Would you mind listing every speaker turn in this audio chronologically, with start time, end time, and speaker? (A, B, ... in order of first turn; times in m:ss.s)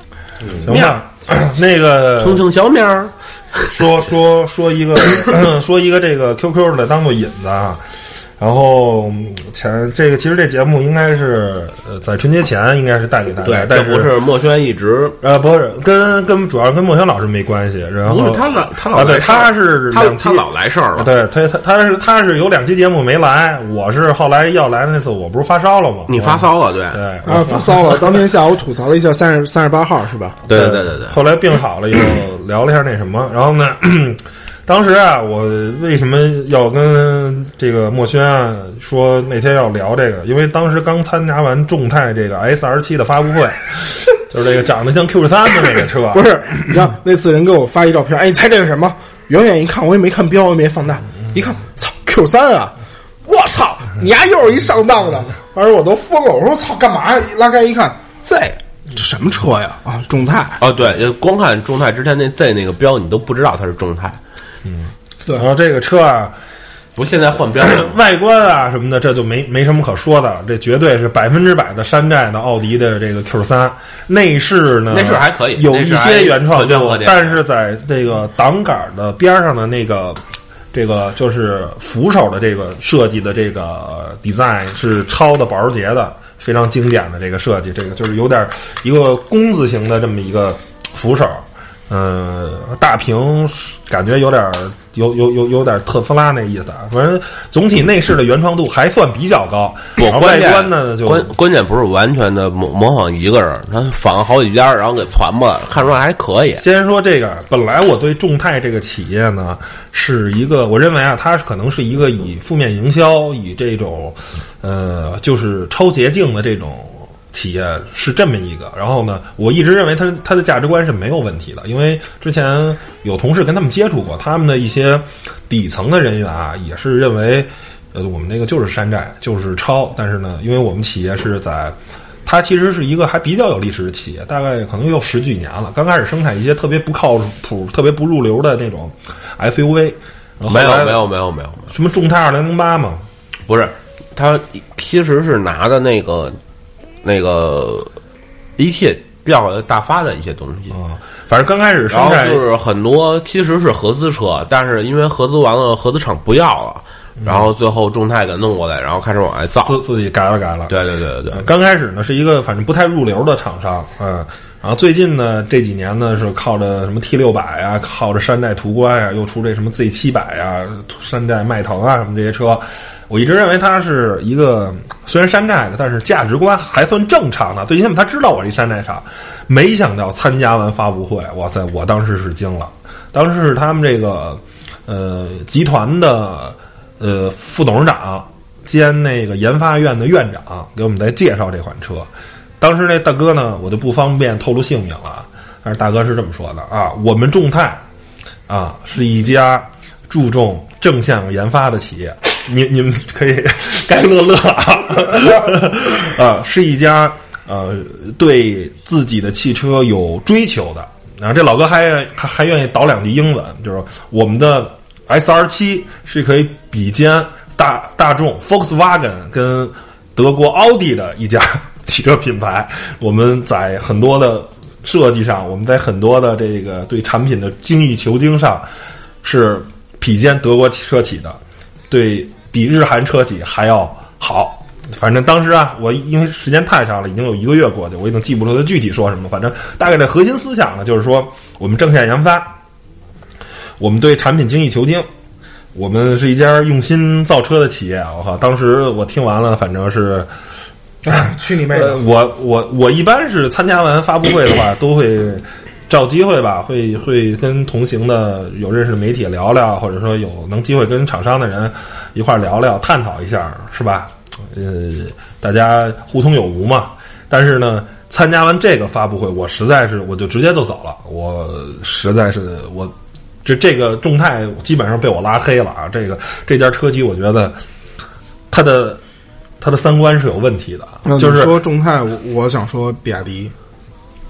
0:00.6-0:01.0 A
0:00.6-0:02.4 B
0:02.2-0:03.7 A
0:03.7-0:14.1 B
0:13.4-0:15.2 A
0:15.2-0:28.2 B
0:18.0-0:21.1 A
0:26.1-0:27.0 A
0:27.2-0:30.4 C
0:30.5-0:31.2 A
0:30.5-0:46.3 B
0:46.1-1:00.6 C
1:00.6-1:04.2 A
1:04.7-1:06.4 B
1:07.0-1:08.0 A
1:07.6-1:20.2 B
1:14.9-1:17.4 A
1:20.7-1:41.3 B
1:40.0-1:46.6 A
1:46.6-2:21.0 B
2:20.5-2:21.7 A
2:21.7-2:23.0 B
2:23.5-2:26.4 A
2:27.0-2:27.9 A
2:28.6-2:30.8 A
2:30.7-2:32.4 B
2:31.9-2:39.8 A
2:39.7-2:40.8 B
2:40.7-2:41.4 A
2:41.3-3:12.1 B
3:12.6-3:17.8 B
3:18.5-3:48.7 B
3:49.2-4:02.6 B
4:03.8-4:05.1 B
4:05.7-4:10.3 B
4:11.0-4:12.0 C
4:11.7-4:37.6 B
4:38.5-4:39.0 B
4:39.6-4:41.6 B
4:41.0-4:43.5 C